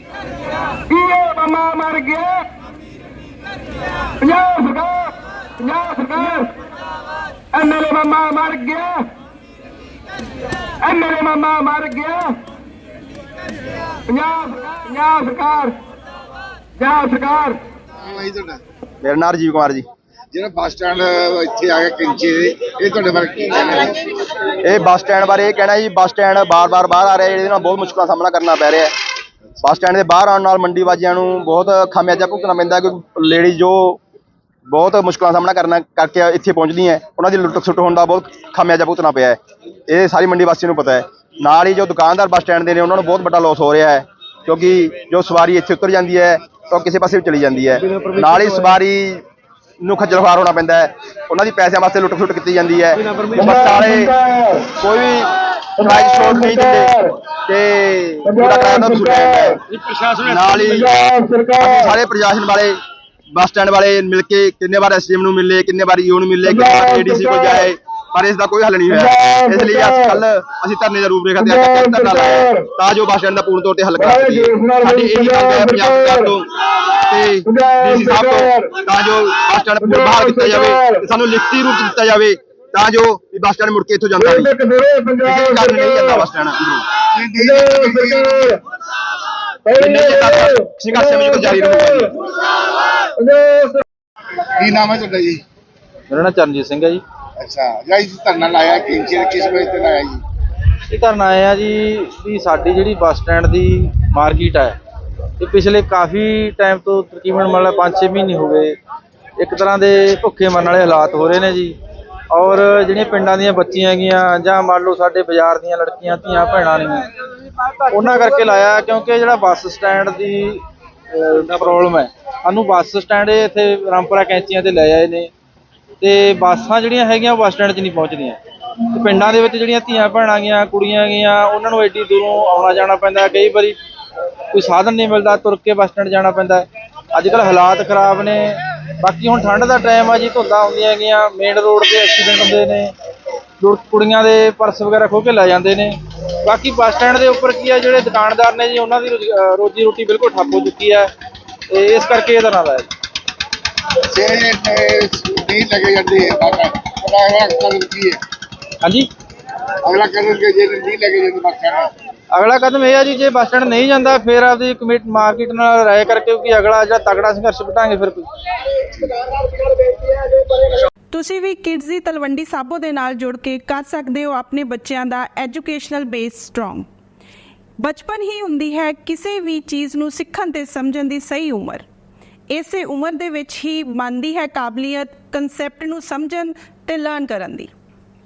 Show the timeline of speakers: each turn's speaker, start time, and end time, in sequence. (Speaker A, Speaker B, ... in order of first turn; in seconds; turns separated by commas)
Speaker A: 0.9-2.5, Speaker A: 4.2-6.5, Speaker A: 7.5-9.1, Speaker A: 10.8-12.4, Speaker A: 14.1-15.8, Speaker A: 16.8-17.6, Speaker B: 18.0-18.6, Speaker C: 19.0-19.9, Speaker B: 20.3-24.0, Speaker C: 24.6-28.9, Speaker C: 29.6-34.0, Speaker C: 34.7-49.2, Speaker C: 49.8-54.1, Speaker A: 53.3-54.7, Speaker C: 54.8-59.6, Speaker A: 55.8-57.1, Speaker A: 58.2-59.6, Speaker C: 60.2-60.9, Speaker A: 60.6-61.9, Speaker C: 61.6-62.8, Speaker C: 63.3-76.5, Speaker A: 66.4-67.7, Speaker A: 68.9-70.2, Speaker A: 71.4-72.7, Speaker A: 74.0-76.3, Speaker C: 77.1-84.5, Speaker A: 77.5-78.8, Speaker A: 79.8-81.0, Speaker A: 84.2-86.2, Speaker C: 85.2-86.9, Speaker B: 87.1-88.5, Speaker A: 87.3-88.6, Speaker A: 89.6-92.1, Speaker C: 89.8-92.1, Speaker A: 93.2-93.8, Speaker B: 94.5-95.4, Speaker D: 96.1-97.0, Speaker B: 97.4-100.2, Speaker D: 100.9-104.8, Speaker D: 105.4-108.8, Speaker D: 109.4-111.8, Speaker D: 112.3-117.1, Speaker D: 117.8-125.3, Speaker D: 126.0-128.4, Speaker D: 128.9-133.8, Speaker D: 134.5-142.9, Speaker D: 143.6-151.1, Speaker D: 151.7-152.9, Speaker B: 154.1-158.2, Speaker D: 158.8-159.1, Speaker B: 159.8-161.9, Speaker D: 162.3-168.3, Speaker D: 169.8-170.6, Speaker E: 171.1-176.9, Speaker E: 177.8-181.8, Speaker E: 182.5-187.7